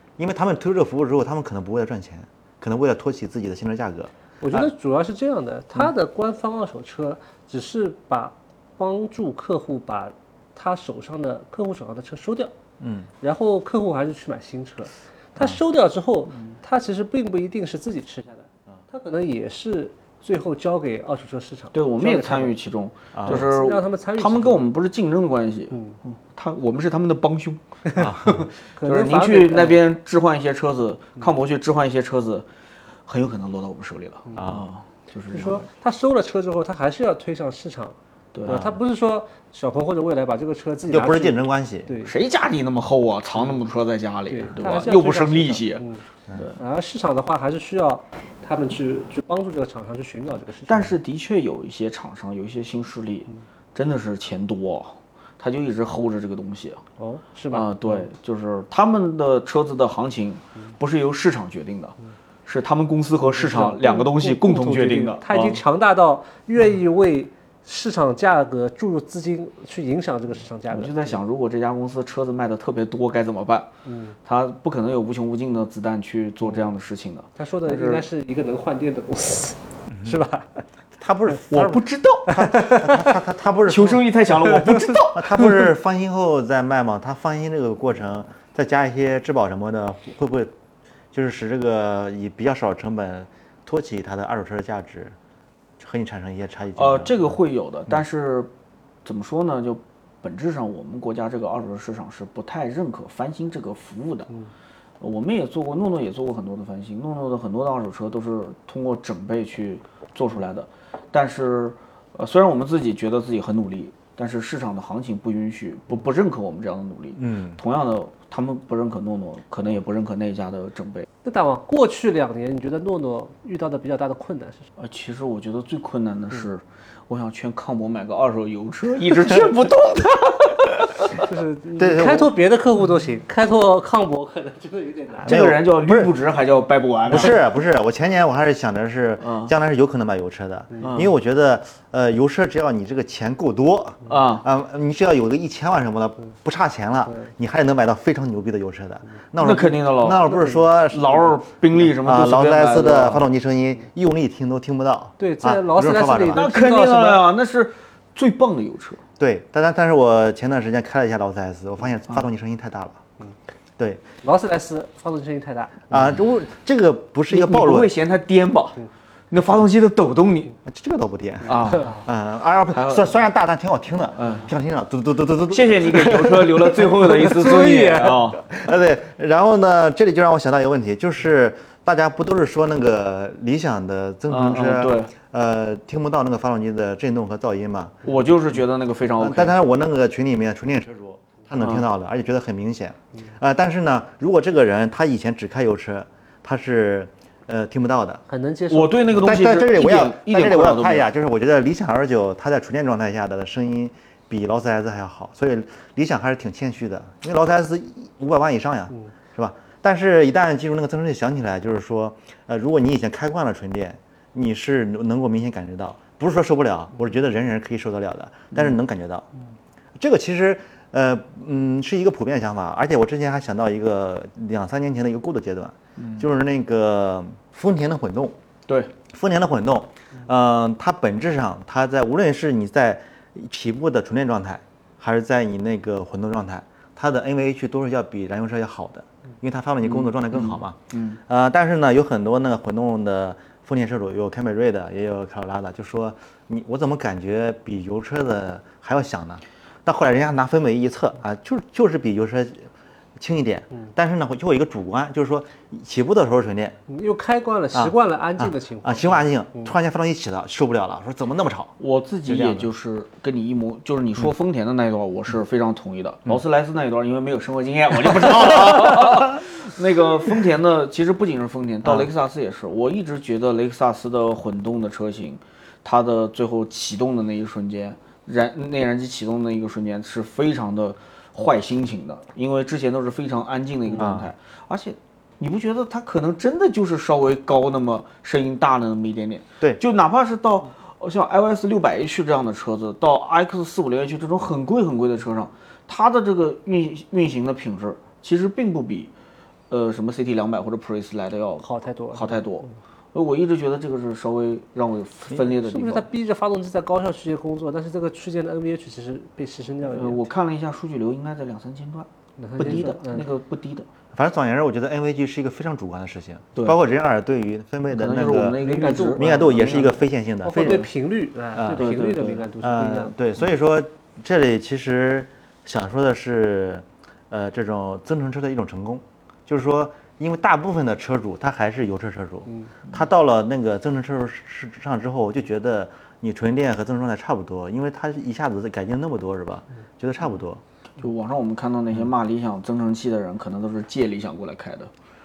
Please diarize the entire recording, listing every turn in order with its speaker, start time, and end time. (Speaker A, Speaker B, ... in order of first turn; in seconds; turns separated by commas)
Speaker A: 0.2-4.7, Speaker B: 4.4-12.5, Speaker A: 12.8-13.1, Speaker B: 13.2-22.5, Speaker C: 21.7-27.7, Speaker A: 23.1-23.4, Speaker B: 23.2-24.6, Speaker B: 25.7-26.0, Speaker A: 27.9-28.5, Speaker C: 28.2-32.5, Speaker B: 28.7-29.8, Speaker C: 33.0-35.6, Speaker A: 34.3-34.7, Speaker B: 35.3-42.1, Speaker C: 38.3-38.8, Speaker A: 40.9-41.9, Speaker C: 42.0-45.8, Speaker B: 44.3-46.0, Speaker B: 46.5-51.0, Speaker C: 50.7-56.8, Speaker B: 57.0-58.0, Speaker C: 57.5-65.6, Speaker B: 63.3-71.2, Speaker C: 70.7-73.7, Speaker B: 73.8-74.2, Speaker C: 74.2-78.0, Speaker B: 77.4-80.6, Speaker A: 79.9-80.2, Speaker A: 81.0-84.0, Speaker C: 81.5-82.3, Speaker B: 82.3-83.2, Speaker C: 83.7-85.6, Speaker A: 85.1-90.5, Speaker A: 91.1-95.1, Speaker A: 95.8-97.3, Speaker C: 96.8-98.5, Speaker C: 99.0-104.3, Speaker C: 105.0-121.1, Speaker A: 117.2-117.6, Speaker B: 121.2-124.7, Speaker C: 124.8-131.2, Speaker B: 131.2-135.3, Speaker A: 131.8-132.3, Speaker C: 135.2-137.4, Speaker A: 135.2-136.1, Speaker A: 137.1-156.5, Speaker C: 139.2-139.5, Speaker C: 140.8-141.1, Speaker C: 144.1-144.4, Speaker C: 149.4-153.2, Speaker B: 155.2-157.2, Speaker C: 156.3-159.0, Speaker A: 159.2-163.0, Speaker A: 163.8-164.0, Speaker B: 164.2-165.8, Speaker A: 165.9-167.9, Speaker C: 167.3-170.6, Speaker A: 170.7-176.8, Speaker C: 171.4-172.0, Speaker C: 172.7-173.1, Speaker C: 174.2-174.5, Speaker C: 175.5-178.4, Speaker B: 177.1-178.2, Speaker A: 178.4-188.0, Speaker C: 184.3-185.1, Speaker C: 188.0-189.6, Speaker A: 189.2-198.2, Speaker B: 198.3-199.2, Speaker C: 198.7-201.1, Speaker A: 199.1-219.2, Speaker A: 220.0-228.4, Speaker C: 225.9-226.3, Speaker C: 228.7-228.9, Speaker A: 229.1-256.8, Speaker C: 239.8-241.2, Speaker B: 256.9-259.7, Speaker A: 257.7-261.7, Speaker C: 261.8-299.1, Speaker A: 262.3-262.7, Speaker A: 268.3-269.4, Speaker A: 284.0-284.3, Speaker C: 299.7-306.1, Speaker B: 301.6-302.4, Speaker B: 305.3-310.2, Speaker C: 309.8-313.9, Speaker B: 312.4-313.3, Speaker A: 314.1-318.6, Speaker C: 317.9-320.0, Speaker B: 318.5-319.2, Speaker A: 319.1-320.9, Speaker B: 320.4-323.1, Speaker A: 321.5-321.9, Speaker C: 321.7-322.5, Speaker A: 322.6-340.6, Speaker C: 341.0-344.9